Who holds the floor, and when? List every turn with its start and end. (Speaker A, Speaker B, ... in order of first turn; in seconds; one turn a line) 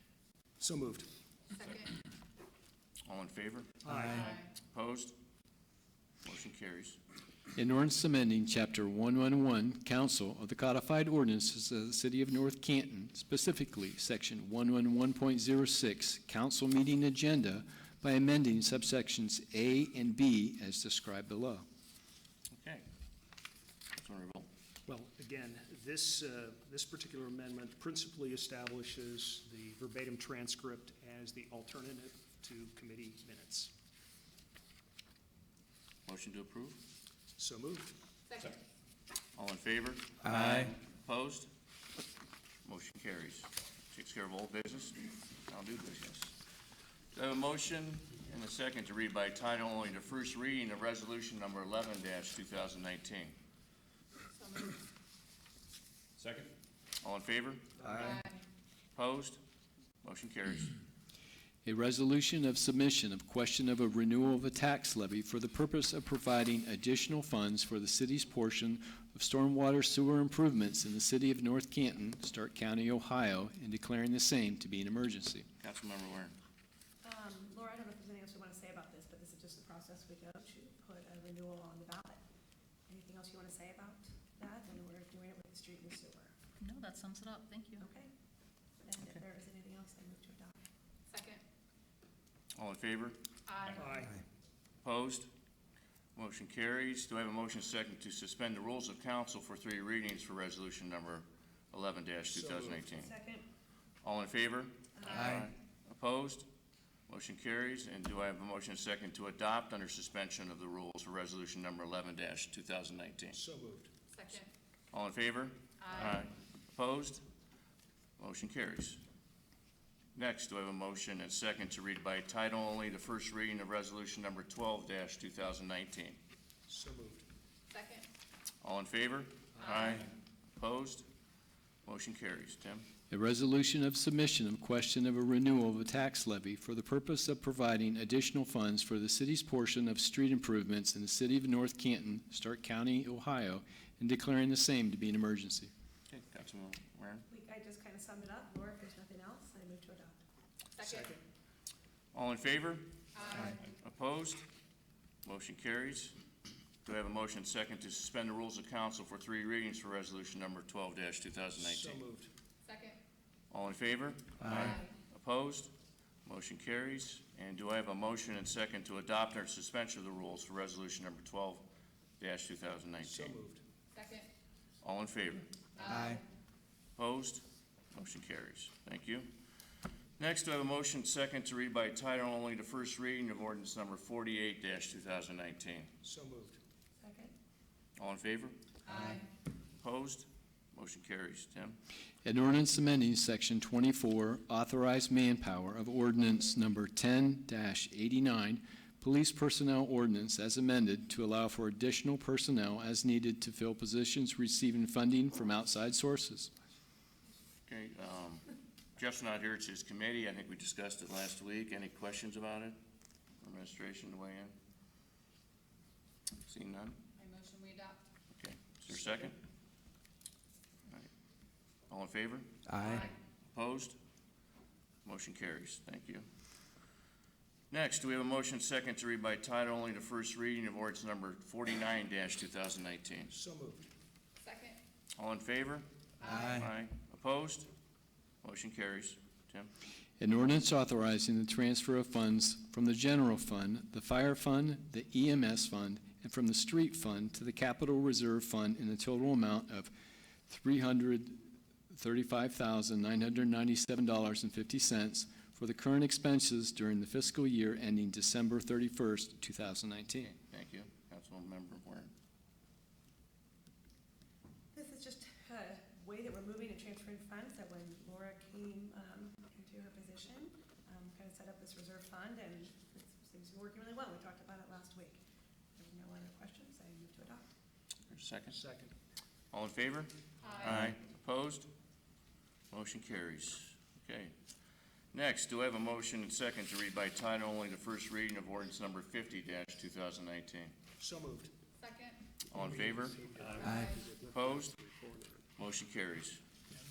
Speaker A: 0.6-1.1
Speaker B: 1.5-1.9
Speaker C: 3.1-5.1
Speaker A: 3.8-4.3
Speaker B: 4.1-4.5
Speaker C: 6.2-7.0
Speaker D: 7.5-21.6
Speaker C: 22.5-22.9
Speaker C: 24.0-24.5
Speaker A: 24.9-33.7
Speaker C: 36.1-36.8
Speaker A: 37.4-37.9
Speaker B: 38.3-38.6
Speaker C: 39.4-41.5
Speaker E: 40.2-40.7
Speaker C: 42.6-46.4
Speaker C: 47.1-53.4
Speaker B: 54.4-54.8
Speaker C: 57.0-57.9
Speaker B: 57.9-58.4
Speaker C: 58.9-59.4
Speaker C: 60.0-60.7
Speaker D: 61.6-75.5
Speaker C: 75.6-76.3
Speaker F: 77.0-82.2
Speaker F: 82.9-86.3
Speaker E: 86.8-87.7
Speaker F: 87.8-88.1
Speaker F: 88.8-90.6
Speaker B: 91.1-91.4
Speaker C: 92.5-93.2
Speaker B: 93.5-94.1
Speaker A: 93.8-94.2
Speaker C: 94.8-95.3
Speaker C: 96.2-103.1
Speaker A: 102.3-102.8
Speaker F: 102.9-103.5
Speaker C: 104.0-106.5
Speaker F: 105.0-105.4
Speaker E: 105.1-105.5
Speaker C: 107.1-113.4
Speaker A: 113.3-113.9
Speaker B: 114.1-114.5
Speaker C: 114.9-117.2
Speaker B: 115.8-116.2
Speaker C: 118.2-119.0
Speaker C: 120.2-126.2
Speaker A: 126.7-127.2
Speaker B: 127.7-128.1
Speaker C: 128.6-131.1
Speaker B: 129.6-130.0
Speaker C: 131.8-132.8
Speaker D: 133.1-145.7
Speaker C: 146.1-147.3
Speaker F: 147.3-150.2
Speaker B: 150.8-151.2
Speaker A: 150.8-151.2
Speaker C: 152.1-154.4
Speaker B: 153.2-153.6
Speaker C: 155.2-156.2
Speaker C: 156.8-162.0
Speaker A: 161.6-162.3
Speaker B: 162.7-163.0
Speaker C: 163.5-165.7
Speaker E: 164.4-164.7
Speaker B: 164.5-164.9
Speaker C: 166.3-171.7
Speaker C: 172.2-173.4
Speaker A: 173.0-173.6
Speaker B: 173.9-174.3
Speaker C: 174.8-176.0
Speaker B: 175.8-176.2
Speaker E: 175.9-176.2
Speaker C: 177.0-179.3
Speaker C: 180.2-185.9
Speaker A: 186.0-186.6
Speaker F: 187.0-187.3
Speaker C: 188.0-188.6
Speaker B: 188.9-189.2
Speaker C: 189.8-191.8
Speaker D: 192.2-206.5
Speaker C: 207.7-208.4
Speaker C: 209.0-212.8
Speaker C: 213.4-214.6
Speaker C: 216.5-217.0
Speaker B: 217.2-218.0
Speaker C: 218.3-219.4
Speaker C: 221.9-222.5
Speaker E: 222.7-223.1
Speaker B: 222.8-223.1
Speaker C: 223.5-224.0
Speaker C: 225.1-226.3
Speaker C: 227.7-233.3
Speaker A: 233.3-233.9
Speaker B: 234.4-234.8
Speaker C: 235.2-237.7
Speaker B: 236.2-236.6
Speaker E: 236.2-236.6
Speaker C: 238.4-239.7
Speaker D: 240.2-249.9
Speaker D: 250.5-260.3
Speaker C: 260.2-262.1
Speaker F: 264.7-275.2
Speaker F: 275.8-277.5
Speaker C: 278.1-278.6
Speaker A: 278.5-278.9
Speaker C: 279.5-281.7
Speaker B: 280.4-280.8
Speaker C: 282.7-284.3
Speaker C: 285.1-290.7
Speaker A: 291.0-291.5
Speaker B: 291.8-292.2
Speaker C: 292.5-293.2
Speaker A: 292.5-295.4
Speaker B: 293.4-294.1
Speaker E: 293.6-294.0
Speaker C: 294.3-294.8
Speaker C: 295.6-296.4